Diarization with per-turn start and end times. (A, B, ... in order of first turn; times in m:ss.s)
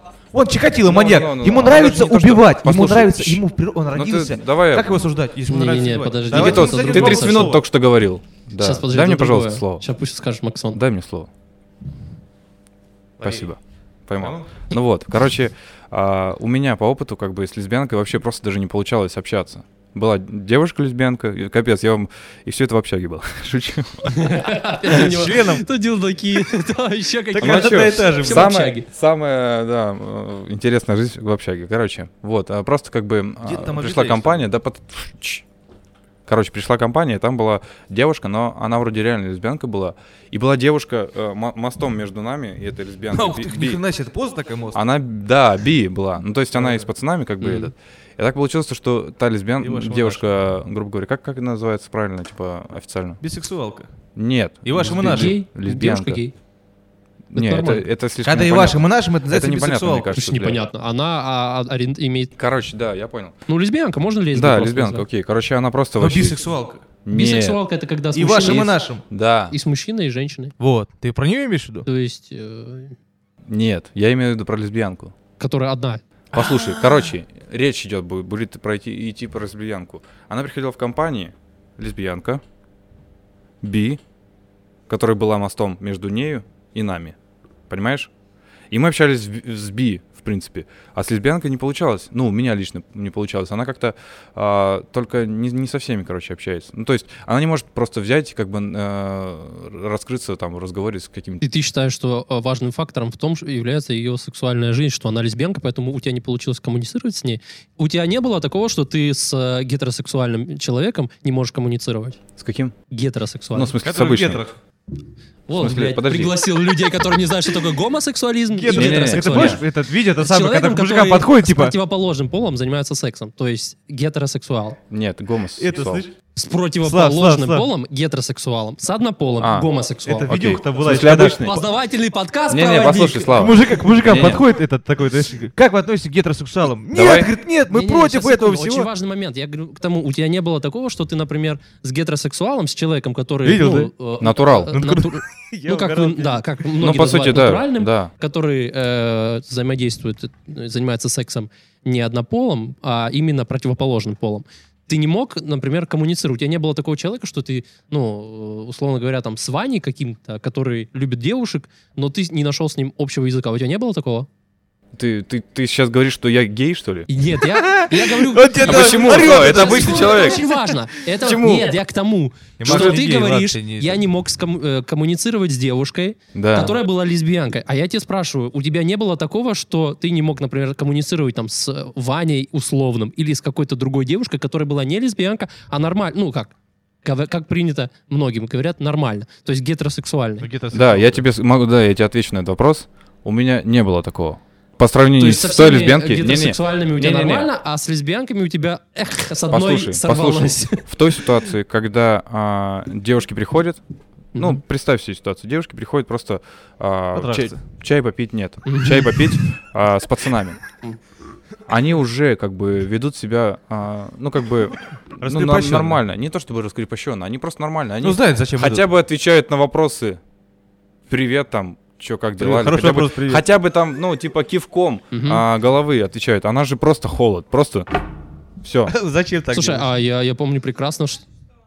0:00.3-0:07.6 A
0:00.8-0:03.4 B
0:03.9-0:05.1 B
0:05.5-0:07.6 C
0:06.3-0:09.8 B
0:08.6-0:10.8 C
0:10.7-0:11.3 B
0:13.2-0:13.5 A
0:13.2-0:24.3 B
0:14.2-0:14.6 A
0:24.1-0:28.9 C
0:24.8-0:25.6 A
0:27.3-0:28.5 A
0:27.4-0:35.4 B
0:33.4-0:34.5 A
0:36.3-0:43.8 B
0:43.1-0:44.8 A
0:44.7-0:53.2 B
0:46.5-0:46.9 A
0:47.4-0:47.7 C
0:49.6-0:50.2 A
0:53.2-0:53.9 A
0:54.2-0:56.2 B
0:54.6-0:55.3 A
0:54.8-0:56.3 C
0:57.3-1:00.6 B
0:57.3-0:57.9 C
0:58.2-1:00.1 A
1:00.1-1:02.3 C
1:02.4-1:03.3 B
1:03.5-1:05.0 C
1:04.3-1:06.4 B
1:06.0-1:06.8 A
1:07.0-1:07.6 B
1:07.1-1:08.7 C
1:08.1-1:09.0 A
1:08.4-1:09.6 B
1:09.5-1:10.5 C
1:10.6-1:11.9 A
1:11.8-1:13.0 C
1:13.5-1:15.1 B
1:15.4-1:16.0 C
1:16.3-1:22.4 B
1:16.3-1:17.1 A
1:23.6-1:24.0 B
1:24.9-1:27.1 B
1:27.7-1:28.1 B
1:28.7-1:41.4 B
1:41.4-1:52.2 C
1:52.4-1:52.7 B
1:52.9-1:53.7 C
1:53.5-1:54.4 B
1:53.8-1:54.5 A
1:55.5-1:59.6 C
1:55.6-1:56.3 B
1:58.5-2:01.7 A
1:58.7-1:59.6 B
2:00.2-2:04.8 C
2:04.9-2:06.0 B
2:05.6-2:06.1 A
2:06.4-2:10.3 C
2:06.8-2:07.7 A
2:09.4-2:09.7 B
2:10.0-2:11.4 A
2:10.3-2:11.6 B
2:10.9-2:13.5 C
2:12.5-2:14.4 B
2:13.3-2:18.9 A
2:16.9-2:17.3 B
2:17.7-2:44.3 C
2:23.4-2:23.9 A
2:24.2-2:24.8 B
2:24.7-2:26.4 A
2:26.8-2:28.1 B
2:44.9-2:47.1 B
2:47.1-3:06.5 C
2:47.4-2:50.4 A
2:48.6-2:50.5 B
2:51.2-2:51.7 B
2:52.6-2:54.0 A
2:52.6-2:53.0 B
2:56.3-2:56.8 B
3:07.0-3:10.5 C
3:10.4-3:11.2 A
3:10.7-3:17.5 B
3:15.2-3:21.4 C
3:19.5-3:23.8 B
3:24.4-3:24.6 C
3:24.4-3:30.6 B
3:27.1-3:27.6 A
3:28.6-3:29.4 C
3:31.7-3:40.2 B
3:35.2-3:36.0 A
3:38.0-3:38.8 A
3:41.1-3:47.9 B
3:42.4-3:43.4 A
3:45.1-3:45.4 C
3:48.6-3:48.9 B
3:48.8-3:49.9 A
3:49.5-3:51.2 C